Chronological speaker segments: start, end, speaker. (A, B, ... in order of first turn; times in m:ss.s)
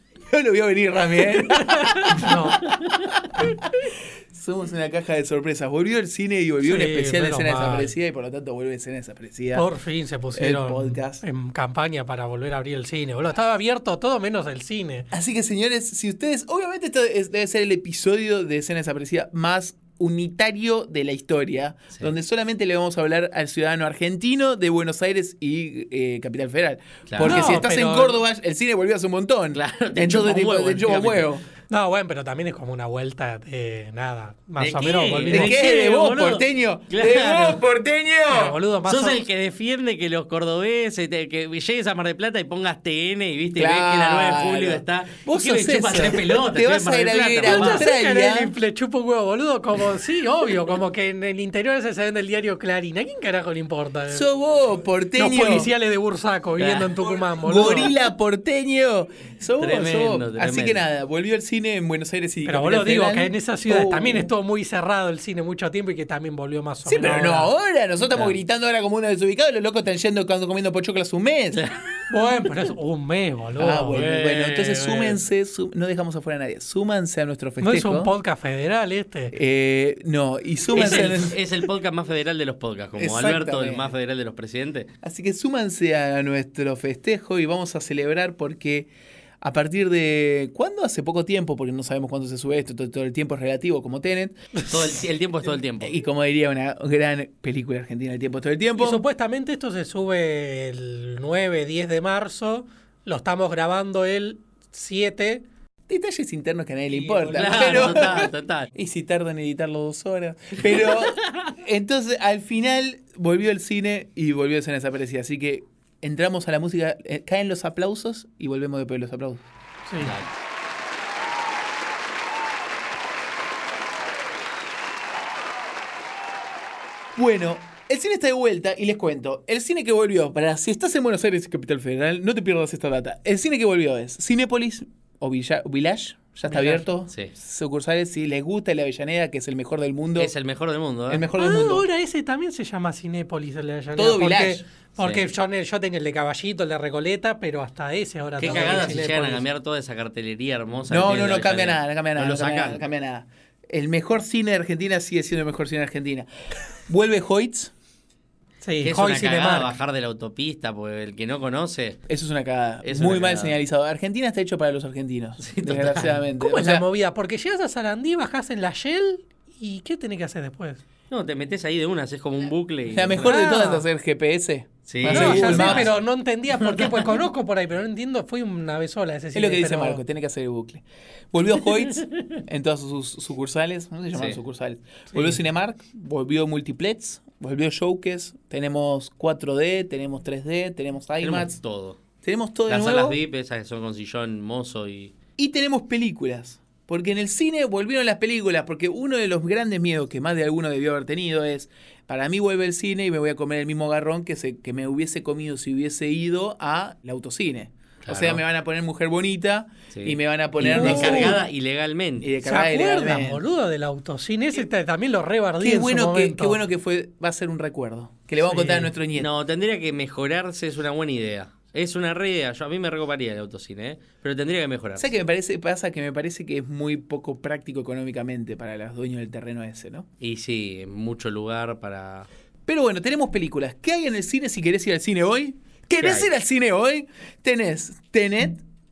0:00.3-0:09.7 A
0:01.5-0:02.7 B
0:02.7-0:03.1 C
0:06.6-0:07.9 B
0:09.5-0:15.1 B
0:10.3-0:11.2 A
0:15.1-0:31.4 A
0:27.1-0:27.5 C
0:27.2-0:28.2 B
0:29.5-0:31.3 C
0:31.7-0:35.6 B
0:34.6-0:37.6 C
0:35.3-0:38.6 A
0:38.3-0:39.2 B
0:38.9-0:47.9 C
0:43.6-0:48.5 A
0:47.4-0:54.3 B
0:54.1-0:55.7 A
0:55.2-0:57.9 B
0:56.6-0:57.1 C
0:57.4-1:04.3 A
0:59.6-1:00.8 C
1:02.4-1:07.5 B
1:06.8-1:11.6 A
1:11.5-1:11.8 C
1:12.1-1:14.0 B
1:13.6-1:18.1 A
1:13.9-1:15.2 C
1:17.6-1:19.4 B
1:19.3-1:21.4 A
1:20.7-1:24.9 C
1:23.0-1:23.9 A
1:25.0-1:28.9 A
1:29.4-1:34.4 A
1:34.7-1:36.0 C
1:35.8-1:39.0 A
1:38.8-1:45.4 B
1:45.9-1:59.5 A
1:47.1-1:48.7 C
1:59.9-2:00.2 B
2:00.0-2:00.3 C
2:07.2-2:20.3 A
2:16.5-2:16.8 B
2:20.2-2:21.3 C
2:21.1-2:21.9 A
2:21.4-2:29.4 B
2:24.0-2:24.6 A
2:25.0-2:25.2 C
2:28.4-2:32.8 C
2:28.5-2:28.8 A
2:30.9-2:36.3 A
2:36.9-2:37.7 A
2:38.6-2:39.7 B
2:38.8-2:42.0 C
2:42.1-2:46.8 A
2:42.8-2:43.6 C
2:45.4-2:46.2 C
2:46.4-2:50.8 B
2:51.1-2:53.3 C
2:52.9-2:55.9 A
2:53.2-2:53.8 B
2:54.9-2:55.9 C
2:55.0-3:00.0 B
2:56.6-2:57.1 C
2:59.3-3:11.6 A
3:05.1-3:05.4 B
3:11.2-3:12.0 C
3:12.2-3:13.2 A
3:12.7-3:15.1 C
3:15.4-3:31.4 A
3:28.0-3:28.4 C
3:29.9-3:32.3 C
3:30.7-3:31.4 B
3:32.2-3:33.4 A
3:32.4-3:36.6 B
3:35.6-3:39.3 A
3:38.4-3:38.9 B
3:39.2-3:45.1 C
3:45.0-3:50.1 A
3:50.2-3:52.3 C
3:52.7-3:58.6 A
3:56.0-3:56.3 C